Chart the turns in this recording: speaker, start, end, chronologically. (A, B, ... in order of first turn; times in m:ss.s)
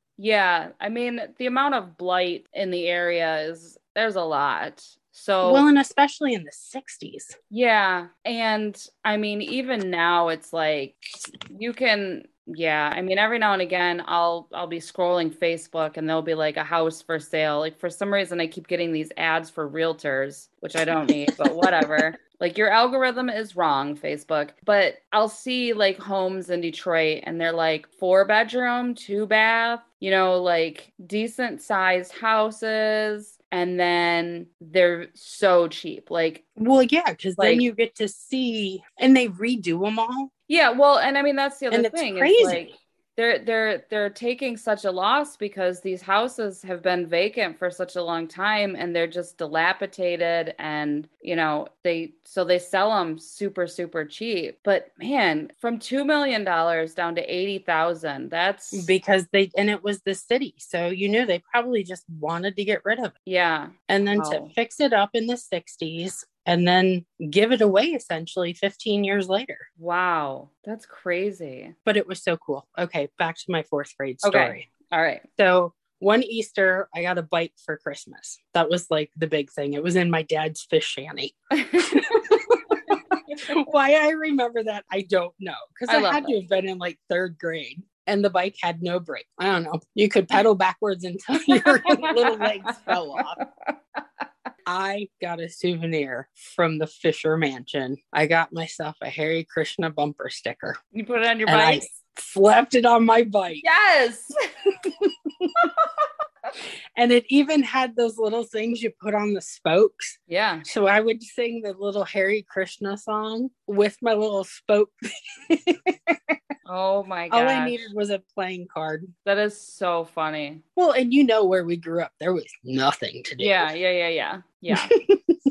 0:00.2-0:05.7 A
0:05.4-0:07.4 B
0:07.5-0:36.4 A
0:21.6-0:21.9 B
0:36.6-0:40.3 B
0:37.4-0:37.6 A
0:40.5-0:58.9 A
0:41.7-0:42.7 B
0:58.7-1:03.2 B
1:03.3-1:04.5 A
1:03.9-1:09.6 B
1:09.8-1:11.7 A
1:11.9-1:14.7 B
1:14.2-1:15.2 A
1:15.4-1:33.4 B
1:21.5-1:22.9 A
1:25.9-1:26.3 A
1:31.6-1:33.7 A
1:34.7-1:40.8 B
1:40.9-1:41.9 A
1:41.5-1:43.6 B
1:43.6-1:44.3 A
1:45.6-1:45.9 A
1:47.0-1:54.9 B
1:50.3-1:50.7 A
1:55.5-1:56.2 B
1:56.7-1:57.9 A
1:57.3-1:59.1 B
1:59.2-2:00.6 A
2:00.8-2:03.6 B
2:03.4-2:04.9 A
2:04.7-2:05.4 B